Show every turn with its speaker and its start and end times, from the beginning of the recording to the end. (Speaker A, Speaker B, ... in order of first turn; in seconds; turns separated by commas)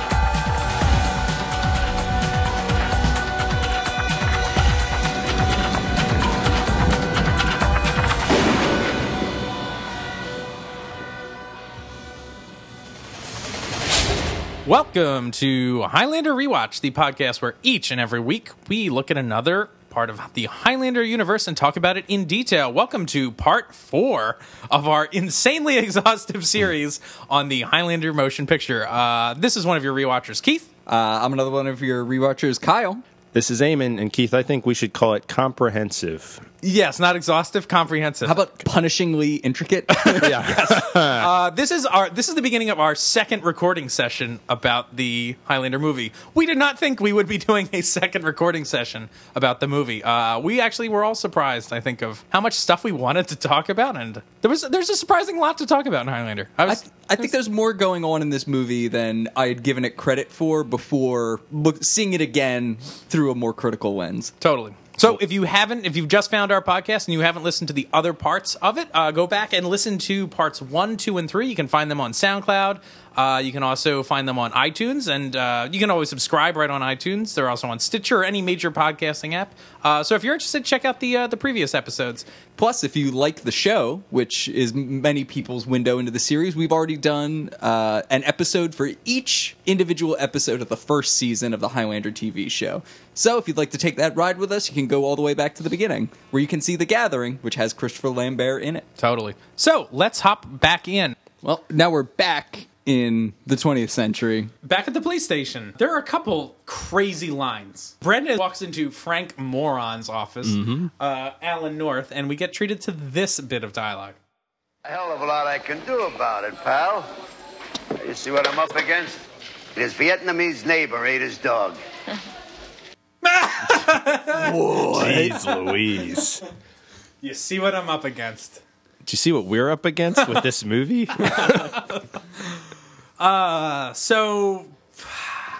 Speaker A: 14.7-30.7, Speaker B: 30.9-33.0, Speaker C: 33.3-36.5, Speaker A: 36.6-38.4, Speaker B: 38.2-40.6, Speaker A: 39.9-57.1, Speaker C: 40.2-41.3, Speaker B: 56.7-64.3, Speaker A: 64.4-82.2, Speaker B: 82.6-98.9, Speaker A: 99.0-101.2, Speaker B: 101.4-104.5, Speaker A: 104.6-114.2, Speaker C: 110.5-110.9, Speaker D: 114.8-117.1, Speaker D: 118.0-119.2, Speaker D: 119.8-121.8, Speaker A: 123.2-124.5, Speaker B: 124.3-125.4, Speaker C: 124.9-126.4, Speaker A: 127.2-128.6, Speaker C: 129.1-131.8, Speaker A: 131.2-132.0, Speaker A: 133.2-135.4